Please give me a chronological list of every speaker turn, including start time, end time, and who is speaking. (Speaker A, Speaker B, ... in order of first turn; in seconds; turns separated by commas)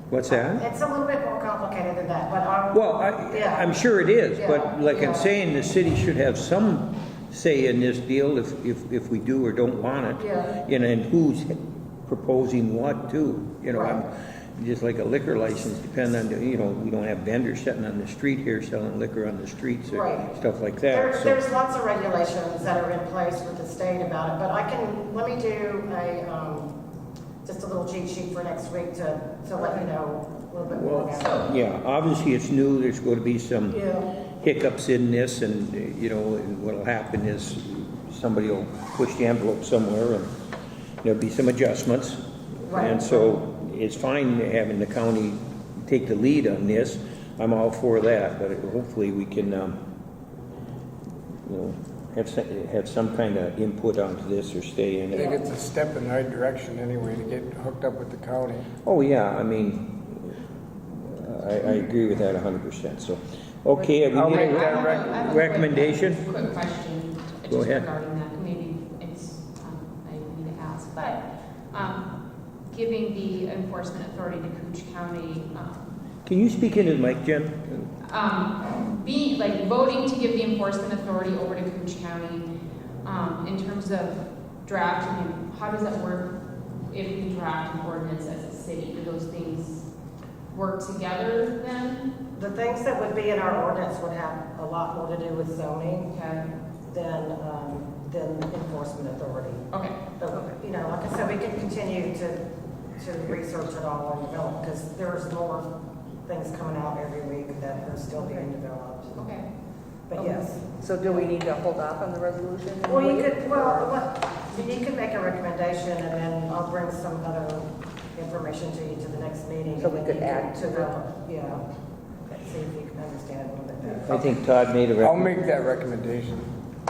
Speaker A: 0.1-0.7, Speaker B: 0.3-3.7, Speaker A: 2.7-21.4, Speaker B: 4.3-5.3, Speaker B: 10.2-10.6, Speaker B: 13.7-14.1, Speaker B: 19.9-20.3, Speaker B: 20.9-26.7, Speaker B: 27.4-31.4, Speaker A: 30.7-33.8, Speaker C: 31.2-31.5, Speaker B: 33.7-34.1, Speaker A: 34.4-40.3, Speaker A: 41.0-49.8, Speaker B: 42.7-43.4, Speaker A: 51.5-55.4, Speaker D: 55.1-58.7, Speaker A: 58.9-60.4, Speaker A: 60.9-66.2, Speaker D: 63.9-65.2, Speaker C: 64.3-72.1, Speaker A: 67.5-67.9, Speaker C: 72.7-75.9, Speaker A: 76.2-77.9, Speaker C: 78.0-82.5, Speaker C: 83.0-86.3, Speaker C: 86.9-89.9, Speaker C: 90.5-92.1, Speaker B: 92.3-96.1, Speaker C: 96.1-96.5, Speaker B: 96.9-99.7, Speaker C: 99.7-100.0, Speaker B: 100.2-102.4, Speaker B: 103.0-105.7, Speaker B: 106.3-109.2, Speaker C: 109.2-109.5, Speaker B: 110.1-111.2, Speaker E: 110.2-113.9, Speaker B: 112.9-121.6, Speaker E: 119.8-120.9, Speaker B: 122.3-124.4, Speaker A: 124.0-125.3, Speaker D: 125.0-126.5